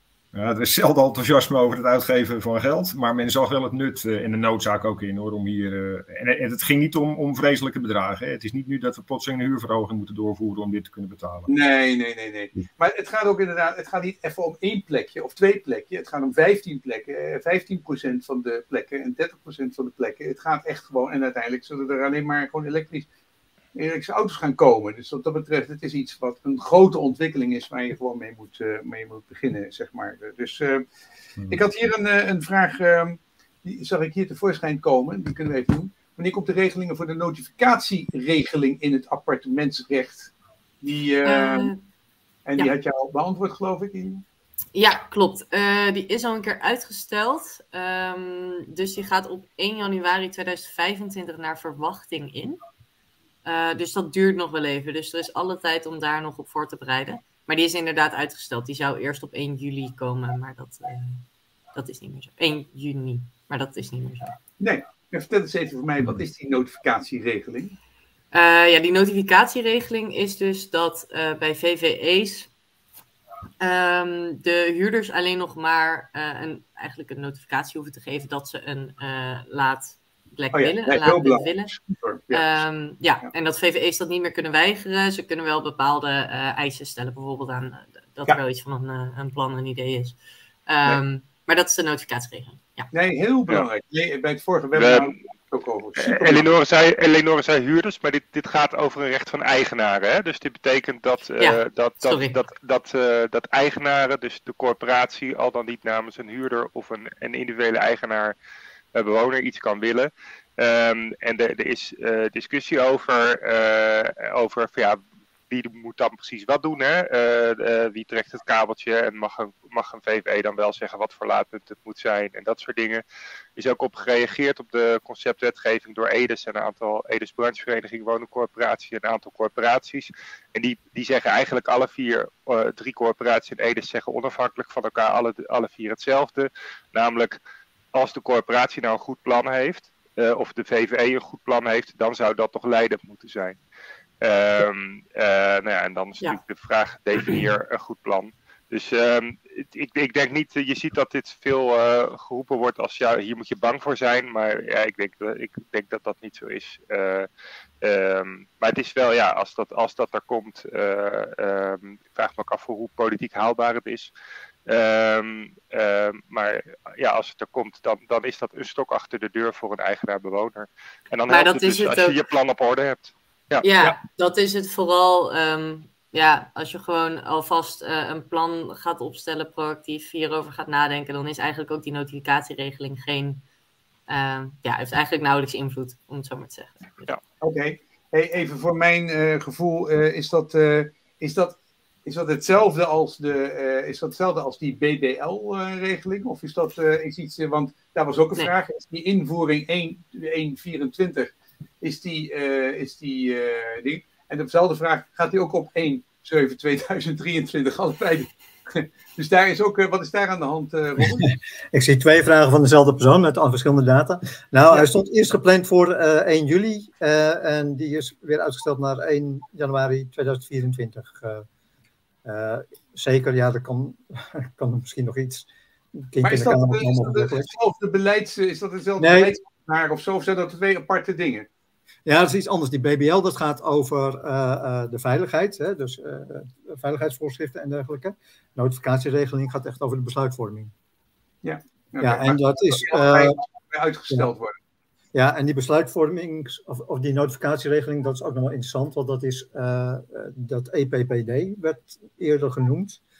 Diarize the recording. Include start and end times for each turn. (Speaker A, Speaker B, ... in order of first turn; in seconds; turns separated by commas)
Speaker A: 0.3-11.5, Speaker B: 11.5-23.1, Speaker B: 23.8-30.8, Speaker B: 31.5-41.7, Speaker C: 41.2-41.8, Speaker B: 42.5-44.2, Speaker C: 44.7-52.6, Speaker C: 53.4-61.2, Speaker C: 61.7-64.4, Speaker B: 64.6-67.8, Speaker C: 68.3-72.5, Speaker C: 73.6-81.7, Speaker B: 80.5-82.6, Speaker C: 82.3-92.9, Speaker B: 92.9-96.5, Speaker D: 94.8-95.1, Speaker D: 96.0-108.3, Speaker C: 101.4-102.4, Speaker D: 108.9-123.0, Speaker D: 123.5-137.4, Speaker D: 137.9-143.6, Speaker D: 144.2-157.3, Speaker D: 157.8-164.1, Speaker D: 164.7-173.6, Speaker C: 171.3-172.2, Speaker C: 173.6-183.4, Speaker C: 184.1-187.1, Speaker B: 187.4-211.3, Speaker E: 211.7-221.4, Speaker E: 222.2-225.5, Speaker E: 226.1-227.5, Speaker B: 226.2-231.5, Speaker E: 229.0-229.3, Speaker E: 232.1-240.7, Speaker B: 241.4-244.5, Speaker E: 242.0-243.4, Speaker E: 245.1-253.0